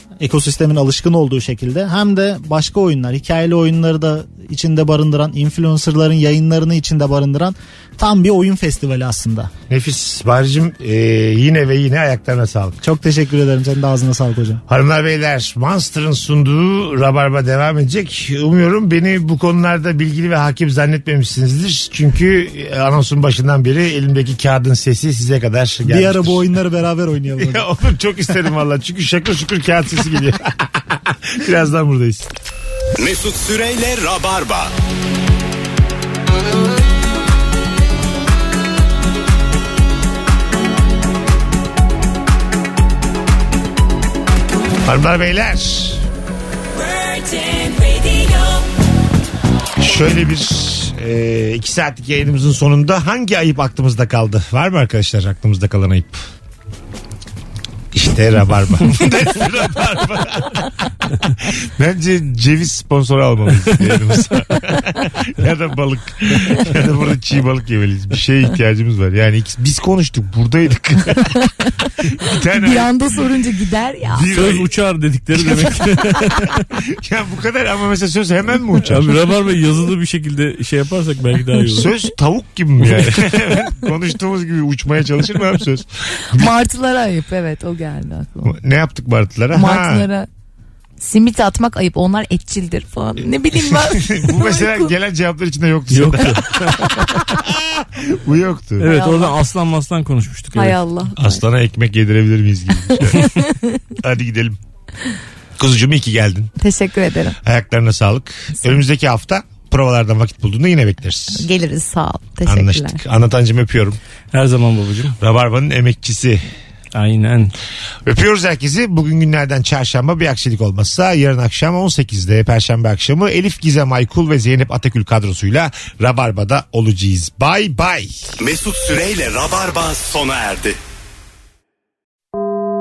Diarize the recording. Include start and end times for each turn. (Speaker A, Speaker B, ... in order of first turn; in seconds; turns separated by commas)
Speaker A: 0.2-9.5, Speaker B: 9.7-12.8, Speaker A: 12.8-14.6, Speaker B: 14.7-26.5, Speaker A: 25.8-27.7, Speaker B: 27.4-32.3, Speaker C: 33.0-34.7, Speaker B: 44.8-46.0, Speaker B: 49.8-56.2, Speaker B: 57.9-60.7, Speaker B: 61.2-71.3, Speaker B: 72.1-72.9, Speaker D: 72.3-74.3, Speaker B: 74.1-74.7, Speaker E: 74.3-76.6, Speaker B: 75.3-76.4, Speaker B: 76.9-79.1, Speaker E: 78.8-81.9, Speaker B: 81.7-86.5, Speaker D: 86.3-88.6, Speaker B: 88.4-90.1, Speaker D: 89.5-90.3, Speaker D: 91.0-95.0, Speaker B: 93.6-98.9, Speaker E: 95.9-97.2, Speaker E: 98.8-100.8, Speaker D: 98.8-99.3, Speaker D: 100.5-101.4, Speaker B: 101.2-103.3, Speaker D: 103.1-103.8, Speaker B: 104.0-104.6, Speaker B: 105.6-106.5, Speaker D: 106.6-107.4, Speaker B: 107.4-111.5, Speaker D: 111.3-113.0, Speaker B: 112.5-114.0, Speaker E: 114.3-115.2, Speaker B: 115.2-116.5, Speaker E: 116.9-117.5, Speaker B: 118.1-128.3, Speaker C: 128.4-130.8